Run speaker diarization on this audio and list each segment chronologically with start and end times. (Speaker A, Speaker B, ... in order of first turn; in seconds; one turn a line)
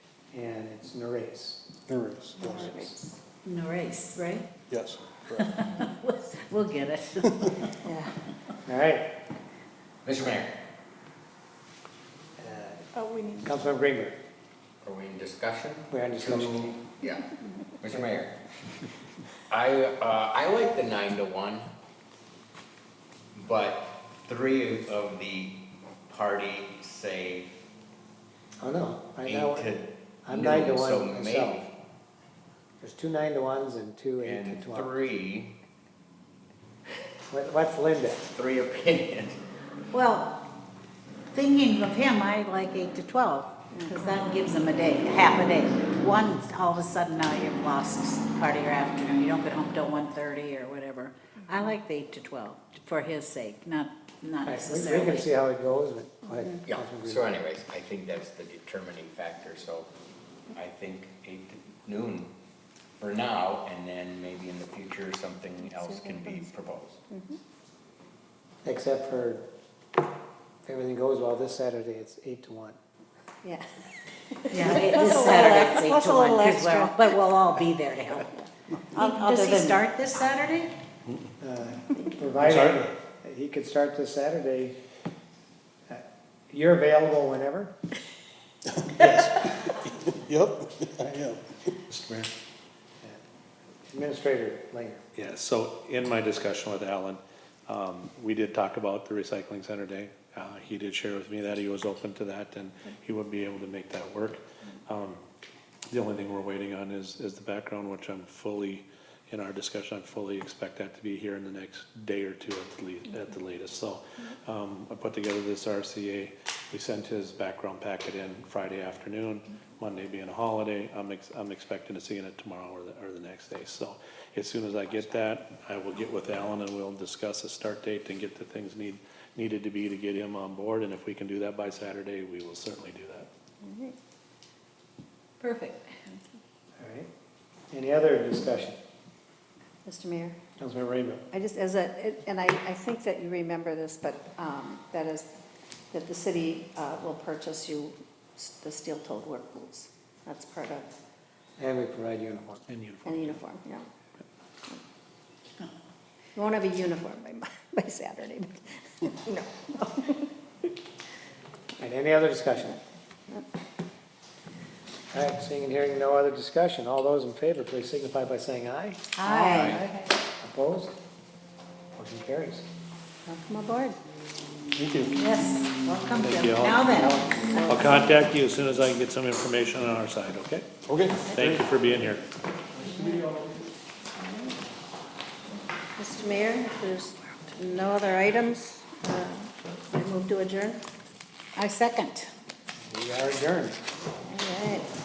Speaker A: 0.3-1.7
Speaker B: 1.9-2.9
Speaker C: 2.4-3.1
Speaker D: 3.5-4.5
Speaker B: 4.7-5.6
Speaker D: 5.3-7.7
Speaker C: 7.8-8.1
Speaker A: 8.7-9.1
Speaker E: 10.0-10.5
Speaker A: 12.4-12.9
Speaker C: 13.0-13.4
Speaker A: 13.4-14.2
Speaker E: 14.8-17.3
Speaker A: 15.9-16.8
Speaker E: 17.8-18.4
Speaker E: 19.5-21.7
Speaker E: 23.4-27.5
Speaker A: 28.6-31.6
Speaker E: 29.2-31.7
Speaker A: 32.8-34.9
Speaker E: 34.2-35.6
Speaker A: 37.3-38.3
Speaker E: 38.3-39.4
Speaker D: 39.9-40.4
Speaker D: 41.3-55.3
Speaker C: 43.7-44.0
Speaker A: 54.5-57.4
Speaker E: 56.7-59.9
Speaker E: 60.5-62.3
Speaker E: 63.0-67.0
Speaker C: 65.7-66.5
Speaker C: 67.1-67.4
Speaker A: 68.7-69.5
Speaker A: 70.7-72.8
Speaker C: 74.3-77.2
Speaker D: 74.5-80.7
Speaker C: 79.0-79.8
Speaker A: 81.4-84.8
Speaker F: 82.4-82.9
Speaker A: 85.9-87.7
Speaker B: 88.8-91.4
Speaker F: 91.9-92.3
Speaker A: 93.9-95.0
Speaker F: 95.2-105.2
Speaker F: 105.9-133.3
Speaker C: 133.6-134.0
Speaker D: 135.4-136.0
Speaker A: 136.8-137.1
Speaker A: 137.7-138.8
Speaker C: 139.8-140.4
Speaker A: 140.6-141.3
Speaker C: 141.3-145.3
Speaker C: 145.9-150.9
Speaker A: 151.6-152.6
Speaker F: 152.7-153.4
Speaker C: 153.0-153.9
Speaker C: 156.4-160.3
Speaker A: 161.8-162.8
Speaker A: 165.1-169.0
Speaker D: 169.2-169.9
Speaker C: 169.2-170.1
Speaker E: 169.5-169.8
Speaker A: 170.4-171.0
Speaker A: 171.9-172.7
Speaker C: 173.3-174.0
Speaker B: 174.8-175.2
Speaker D: 175.1-177.2
Speaker F: 176.2-180.7
Speaker C: 177.4-178.1
Speaker B: 180.9-181.7
Speaker F: 181.3-182.2
Speaker C: 182.8-183.3
Speaker C: 186.0-190.8
Speaker D: 191.6-192.3
Speaker A: 192.9-193.8
Speaker C: 194.3-194.9